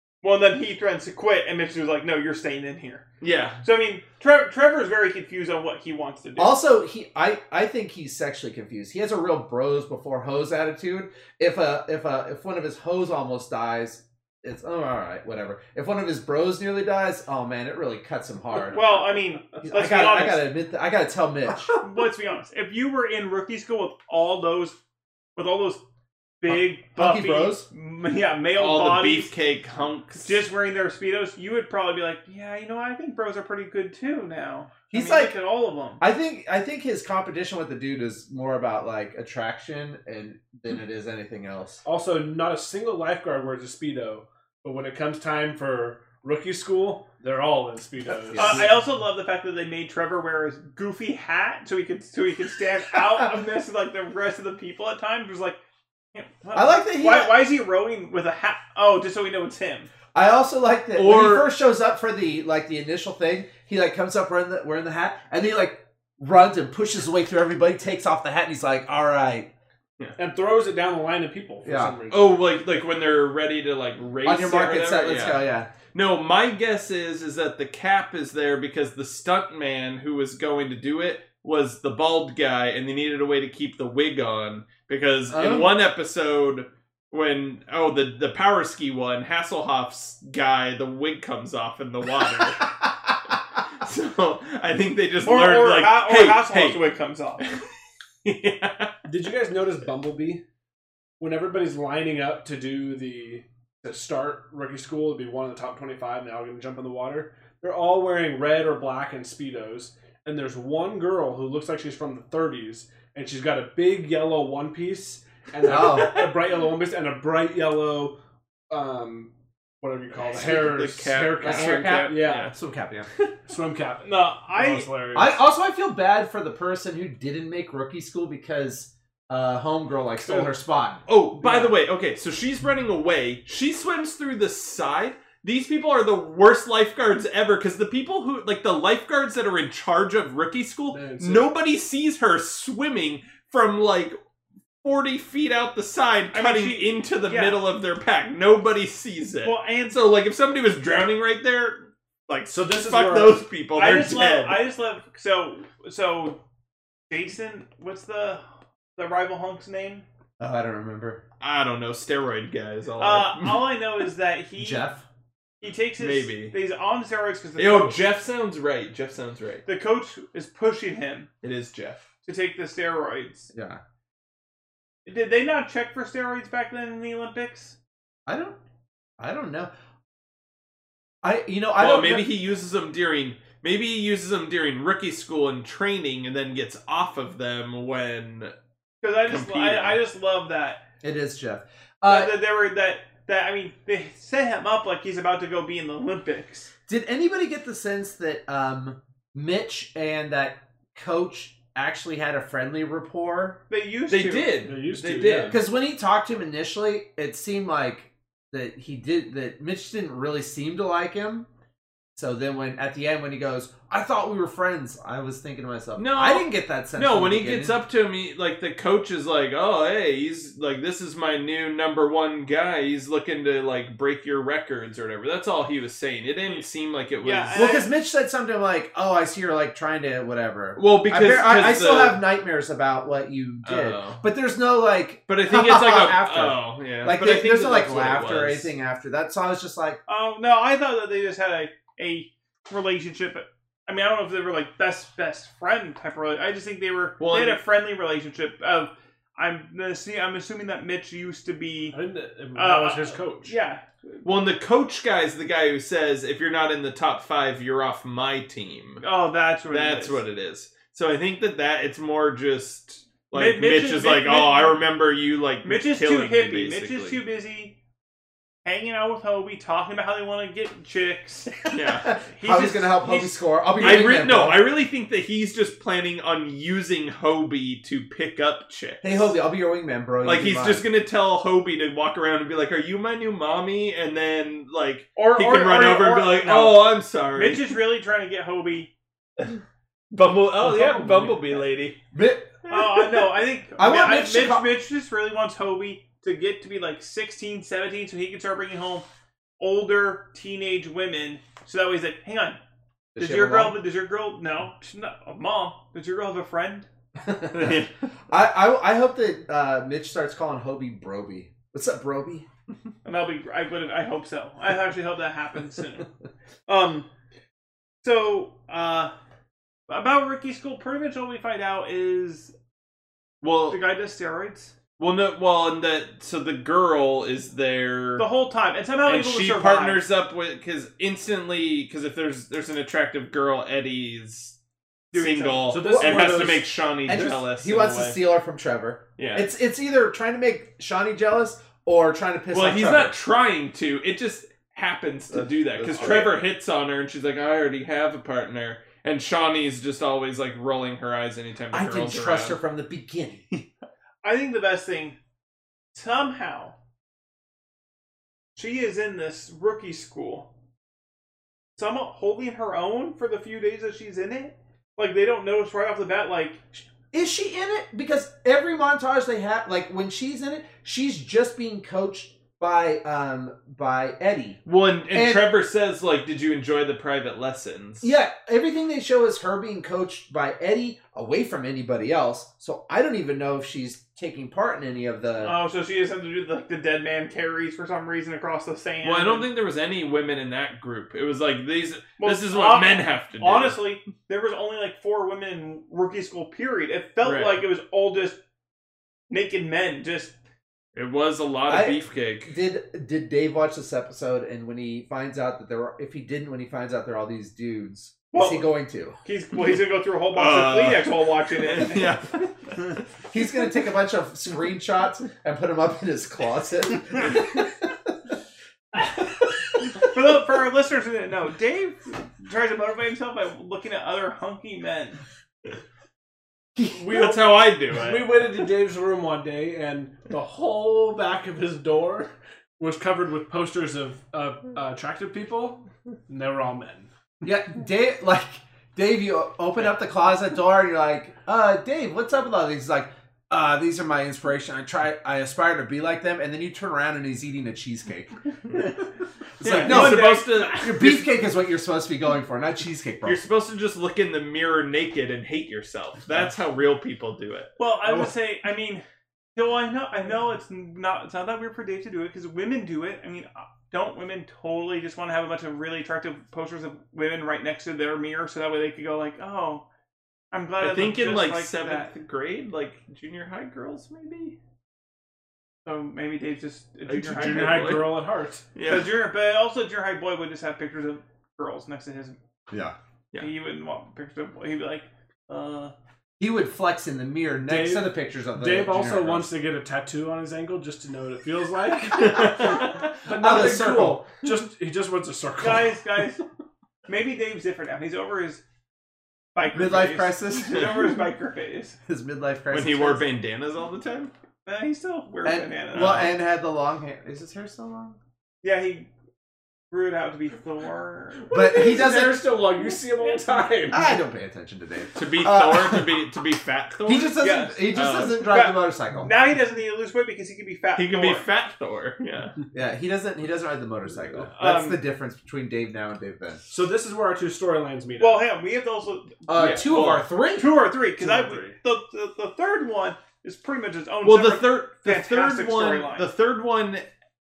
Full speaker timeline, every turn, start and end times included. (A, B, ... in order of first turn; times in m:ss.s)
0:00.2-0:03.0 A
0:03.2-0:03.6 B
0:03.6-0:06.6 A
0:06.4-0:18.9 C
0:18.6-0:20.5 A
0:19.6-0:21.7 C
0:21.8-0:24.8 A
0:25.4-0:25.8 A
0:26.4-0:29.3 A
0:26.5-0:27.7 C
0:28.6-0:30.4 B
0:30.2-0:36.0 A
0:34.9-0:35.4 C
0:36.0-0:41.8 C
0:41.8-0:48.7 D
0:48.2-0:48.7 C
0:48.4-0:55.6 A
0:56.1-0:59.9 A
0:56.5-0:57.4 C
1:00.1-1:09.5 C
1:01.0-1:01.5 B
1:10.2-1:12.4 D
1:11.6-1:12.0 C
1:12.1-1:32.7 B
1:14.2-1:15.7 C
1:25.3-1:25.7 C
1:33.8-1:36.9 B
1:35.2-1:37.4 A
1:38.2-1:39.0 B
1:39.1-1:40.4 D
1:41.2-1:58.2 D
1:55.6-1:56.2 C
1:58.7-2:02.5 D
2:00.2-2:02.5 B
2:01.4-2:03.1 C
2:03.5-2:05.4 D
2:04.0-2:04.9 A
2:05.1-2:11.0 C
2:11.1-2:24.2 B
2:11.4-2:11.8 D
2:20.9-2:21.5 D
2:24.8-2:34.6 B
2:26.3-2:27.6 A
2:29.4-2:30.0 A
2:32.5-2:33.4 D
2:33.8-2:36.4 A
2:37.1-2:38.4 A
2:39.0-2:40.1 A
2:40.4-2:41.2 C
2:41.4-2:43.7 B
2:43.0-2:44.9 A
2:44.6-2:45.0 C
2:45.6-2:48.0 A
2:46.0-2:46.6 B
2:47.6-2:49.7 B
2:49.7-2:51.3 A
2:51.4-2:52.1 B
2:52.2-2:53.5 A
2:53.5-2:53.8 C
2:55.1-2:57.8 A
2:58.3-2:58.6 C
2:59.2-2:59.7 C
3:01.2-3:02.3 C
3:01.8-3:08.5 B
3:09.0-3:10.8 A
3:09.2-3:10.0 B
3:11.0-3:12.4 C
3:12.1-3:16.7 A
3:16.9-3:23.6 C
3:23.7-3:24.7 A
3:24.1-3:25.6 B
3:24.6-3:25.6 D
3:25.4-3:31.5 C
3:32.2-3:37.8 C
3:36.0-3:47.8 B
3:47.2-3:47.9 A
3:47.6-4:00.0 C
3:50.8-3:52.2 B
3:53.6-3:54.2 B
3:55.3-3:58.7 B
4:00.1-4:12.0 A
4:07.2-4:07.6 B
4:11.9-4:13.6 D
4:12.6-4:14.2 A
4:14.2-4:19.0 B
4:19.0-4:20.2 A
4:19.7-4:27.2 B
4:23.3-4:24.8 A
4:25.6-4:27.8 A
4:28.6-4:31.7 A
4:31.7-4:32.2 B
4:32.1-4:34.6 C
4:32.2-4:33.9 A
4:33.8-4:39.4 B
4:39.0-4:40.8 C
4:40.2-4:47.8 B
4:45.2-4:48.9 A
4:50.1-4:52.0 B
4:50.6-4:51.6 D
4:52.1-4:52.6 C
4:52.6-4:53.3 B
4:52.7-4:59.1 A
4:53.8-4:54.7 C
4:59.6-5:02.6 A
5:03.2-5:03.8 C
5:03.2-5:06.9 A
5:07.2-5:12.5 C
5:07.5-5:07.9 B
5:13.0-5:16.1 A
5:16.7-5:17.1 A
5:18.0-5:19.1 A
5:19.9-5:22.5 A
5:23.4-5:23.8 B
5:23.7-5:24.7 A
5:25.0-5:28.3 B
5:28.2-5:30.0 A
5:29.1-5:34.6 B
5:35.1-5:35.8 A
5:35.1-5:38.2 B
5:35.7-5:37.4 D
5:35.9-5:36.4 C
5:37.1-5:43.2 C
5:39.2-5:39.5 B
5:42.5-5:52.6 B
5:45.3-5:46.3 C
5:46.0-5:46.3 A
5:51.7-5:53.5 C
5:54.2-5:55.2 A
5:55.9-5:56.8 A
5:58.6-6:00.5 A
6:01.8-6:06.6 A
6:07.1-6:15.5 C
6:14.7-6:18.1 B
6:18.0-6:25.6 C
6:25.4-6:29.5 A
6:29.0-6:33.8 B
6:32.2-6:38.4 A
6:37.2-6:37.6 B
6:39.3-6:40.3 A
6:41.0-6:42.5 B
6:41.7-6:49.2 C
6:48.3-6:52.2 A
6:50.3-6:53.0 B
6:53.3-6:58.1 C
6:59.0-6:59.5 C
7:00.0-7:05.2 A
7:06.9-7:08.6 B
7:07.0-7:17.1 D
7:17.4-7:29.0 C
7:29.6-7:33.4 C
7:29.6-7:31.3 B
7:29.6-7:31.0 A
7:33.2-7:38.3 B
7:37.8-7:39.0 A
7:39.6-7:49.8 A
7:50.5-7:52.1 A
7:50.8-7:54.6 B
7:55.8-7:58.0 A
7:57.1-7:59.1 B
7:57.2-7:58.6 D
7:58.8-8:02.4 A
8:02.7-8:02.9 C
8:03.4-8:05.9 A
8:06.4-8:09.5 C
8:07.7-8:16.0 D
8:12.2-8:13.0 B
8:13.3-8:14.2 C
8:15.6-8:16.4 A
8:17.1-8:18.6 A
8:19.6-8:22.0 A
8:19.7-8:21.1 C
8:22.1-8:23.2 C
8:22.7-8:24.3 B
8:24.6-8:26.3 A
8:25.4-8:28.2 C
8:25.9-8:26.4 B
8:28.6-8:29.1 A
8:29.9-8:31.8 A
8:31.4-8:34.2 D
8:31.5-8:32.4 C
8:33.9-8:36.2 C
8:35.1-8:37.4 B
8:37.0-8:39.3 C
8:37.4-8:41.5 A
8:37.9-8:38.5 B
8:41.0-8:42.6 B
8:42.7-8:46.6 C
8:44.6-8:45.0 A
8:46.7-8:48.4 D
8:48.2-8:56.3 A
8:49.5-8:50.7 C
8:49.6-8:50.3 B
8:51.2-8:51.8 D
8:54.2-8:57.1 B